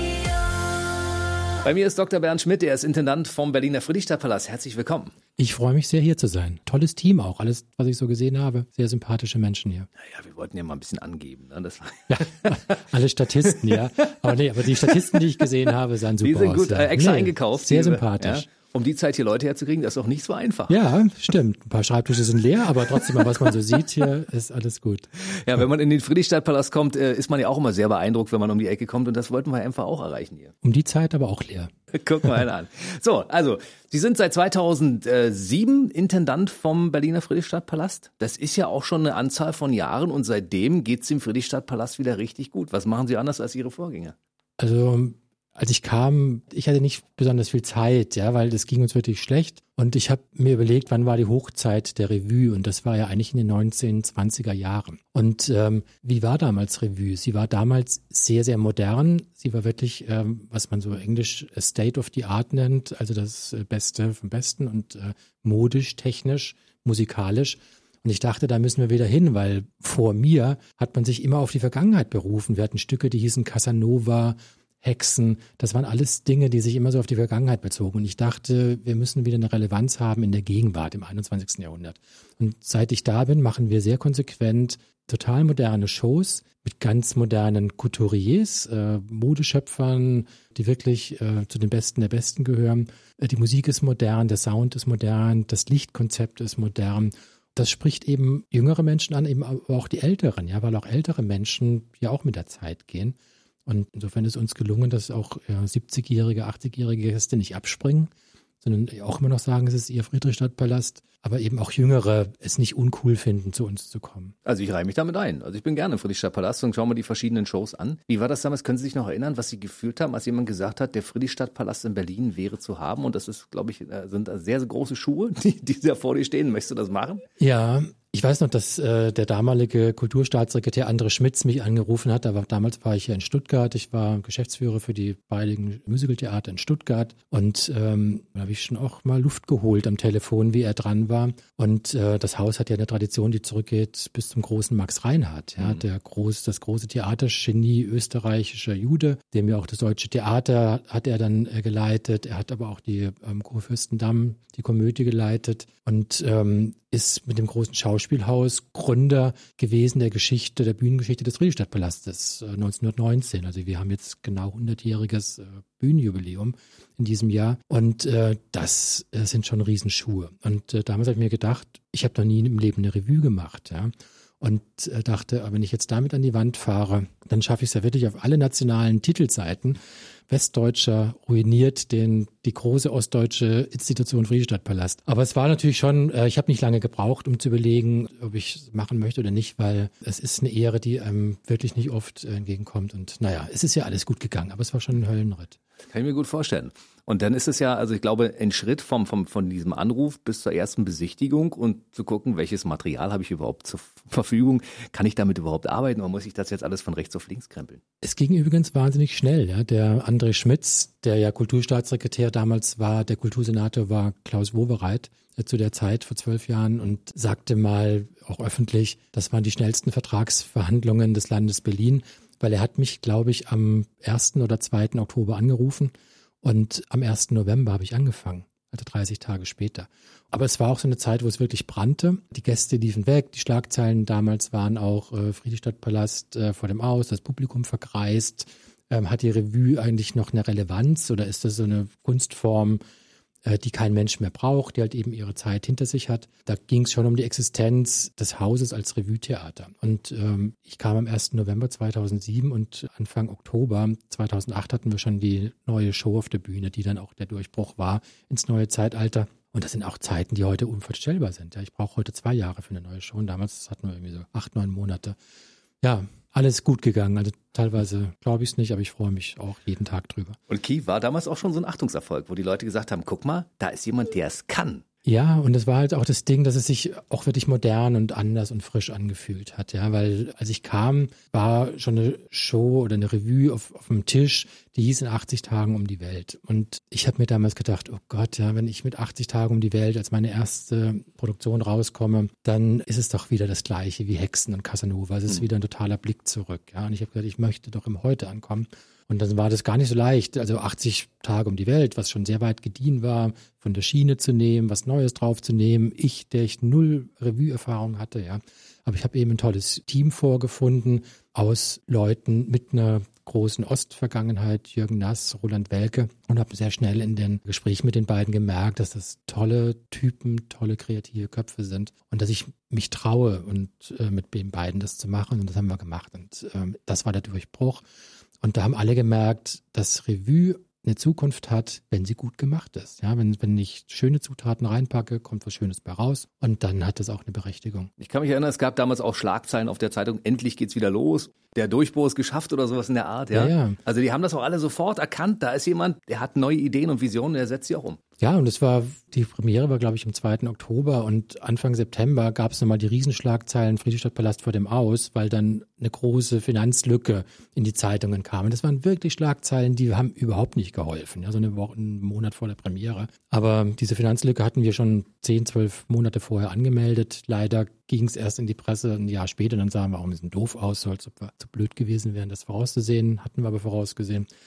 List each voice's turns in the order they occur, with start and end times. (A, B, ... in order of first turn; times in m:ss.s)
0:01.6-0:05.1 A
0:05.4-0:09.9 B
0:10.0-0:12.8 A
0:12.1-0:18.5 B
0:16.2-0:20.8 A
0:20.7-0:25.1 B
0:25.2-0:30.5 A
0:30.6-0:31.7 B
0:31.9-0:44.2 A
0:44.6-1:48.1 B
1:48.6-1:54.3 B
1:54.4-2:07.2 A
2:07.4-3:15.6 B
3:15.9-3:27.8 A
3:28.0-4:02.8 B
4:03.4-4:25.2 B
4:25.8-4:30.4 B
4:30.5-4:34.8 A
4:35.0-5:27.8 B
5:28.4-5:37.9 B
5:38.0-5:48.0 A
5:43.3-5:43.8 B
5:48.2-6:14.3 B